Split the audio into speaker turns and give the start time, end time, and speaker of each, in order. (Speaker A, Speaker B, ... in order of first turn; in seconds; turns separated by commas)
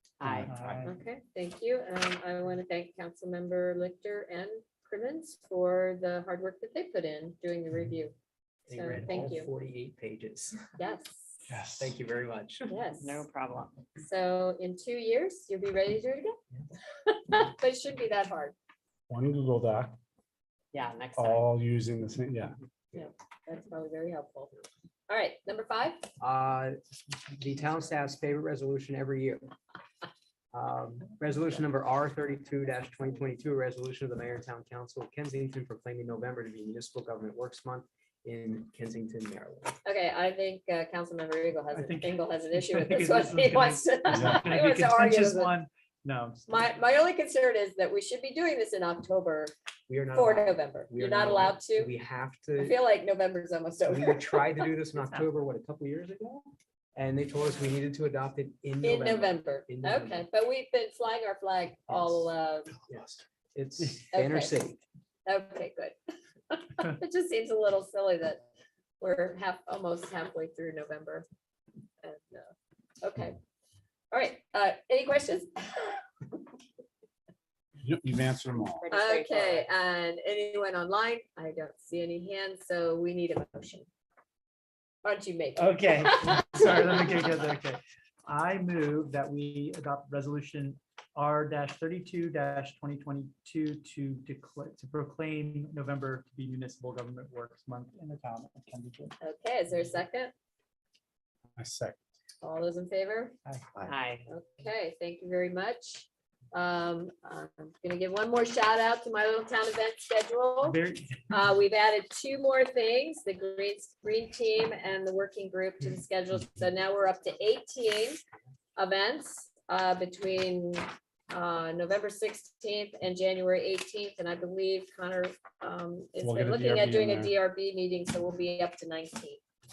Speaker A: 0.2-0.5, Speaker B: 0.2-0.8, Speaker C: 0.5-0.9, Speaker D: 0.8-8.1, Speaker E: 8.7-10.6, Speaker D: 8.7-9.5, Speaker D: 10.8-11.4, Speaker B: 11.5-12.0, Speaker E: 11.8-12.7, Speaker D: 12.7-13.2, Speaker A: 13.0-13.8, Speaker D: 14.0-16.4, Speaker D: 17.0-18.5, Speaker B: 19.1-20.0, Speaker A: 20.7-21.4, Speaker B: 21.1-22.6, Speaker D: 22.9-24.5, Speaker D: 25.1-26.0, Speaker E: 26.2-29.5, Speaker E: 30.5-39.8, Speaker D: 39.8-45.5, Speaker C: 41.7-46.6, Speaker B: 44.1-44.4, Speaker D: 46.5-49.5, Speaker E: 49.9-52.8, Speaker D: 50.1-51.9, Speaker D: 52.6-54.7, Speaker E: 53.9-60.2, Speaker D: 58.8-62.7, Speaker E: 61.9-62.3, Speaker E: 62.9-64.8, Speaker D: 64.1-64.6, Speaker D: 65.2-66.0, Speaker D: 66.5-68.4, Speaker D: 69.0-71.2, Speaker D: 72.0-73.4, Speaker D: 74.1-76.0, Speaker B: 77.8-78.8, Speaker A: 78.8-79.7, Speaker D: 78.9-83.9, Speaker D: 85.0-86.5, Speaker C: 85.5-99.1, Speaker D: 99.2-100.3, Speaker B: 101.6-102.0, Speaker D: 102.4-103.3, Speaker A: 103.9-104.2, Speaker D: 104.3-118.2, Speaker C: 110.6-111.2, Speaker D: 118.8-129.4, Speaker B: 126.2-127.3